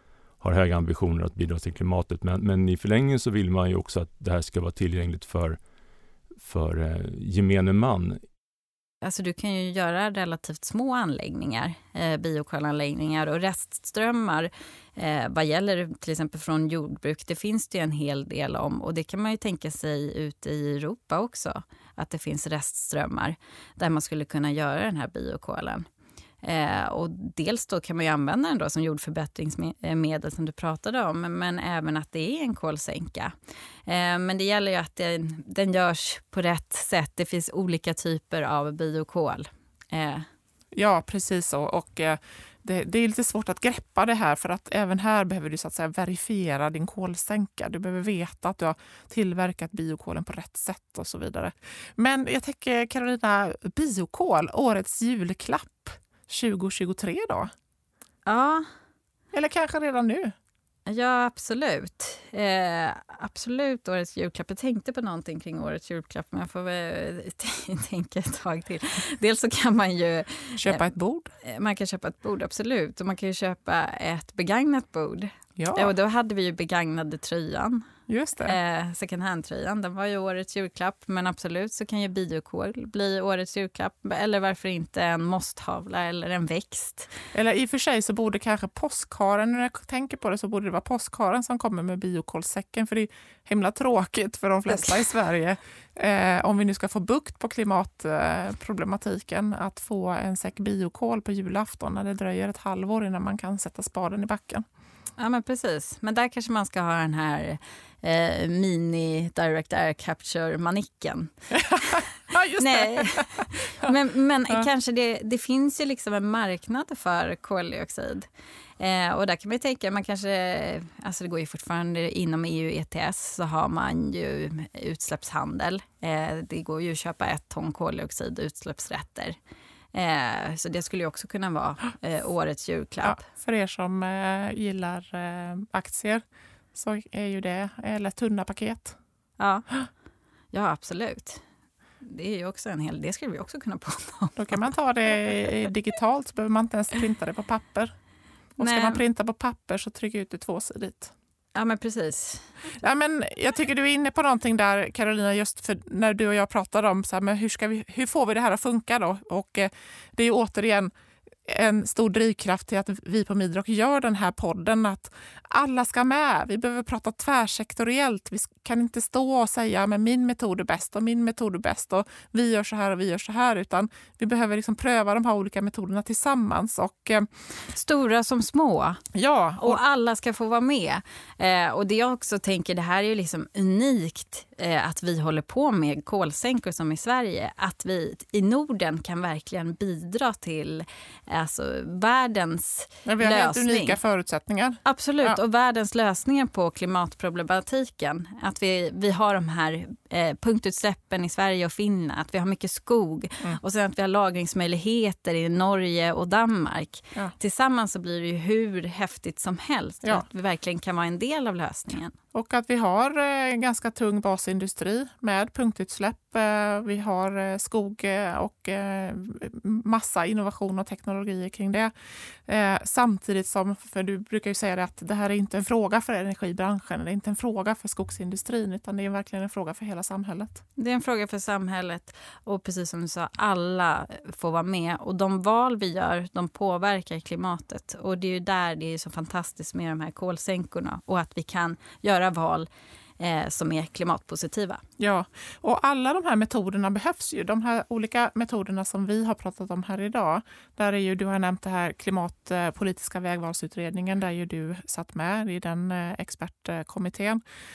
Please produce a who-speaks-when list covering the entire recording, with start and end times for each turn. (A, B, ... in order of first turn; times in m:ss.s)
0:00.4-0:05.6 A
0:06.4-0:08.2 A
0:09.0-0:25.8 B
0:26.4-0:33.3 B
0:33.9-0:40.2 B
0:40.7-0:57.5 C
0:58.2-0:58.6 B
0:59.3-1:00.3 C
1:00.9-1:10.8 B
1:10.6-1:11.3 C
1:11.4-1:17.8 B
1:15.6-1:15.9 C
1:18.1-1:18.6 C
1:18.4-1:27.1 B
1:27.3-1:44.6 C
1:45.2-1:51.3 B
1:51.5-1:53.9 C
1:52.6-1:58.3 B
1:58.8-2:09.4 B
2:09.9-2:13.2 B
2:13.0-2:19.0 C
2:19.4-2:19.6 B
2:20.5-2:21.4 B
2:22.0-2:24.6 B
2:24.4-2:27.9 C
2:28.6-2:31.1 C
2:28.6-2:29.0 B
2:31.5-2:32.4 B
2:32.8-2:40.9 C
2:41.5-2:57.3 C
2:57.7-2:59.0 B
2:59.1-2:59.8 C
2:59.6-3:14.0 B
3:13.0-3:15.4 C
3:14.8-3:32.1 B
3:32.3-3:41.9 C
3:42.4-3:50.6 C
3:50.8-4:02.7 B
4:03.2-4:04.8 B
4:05.0-4:17.4 C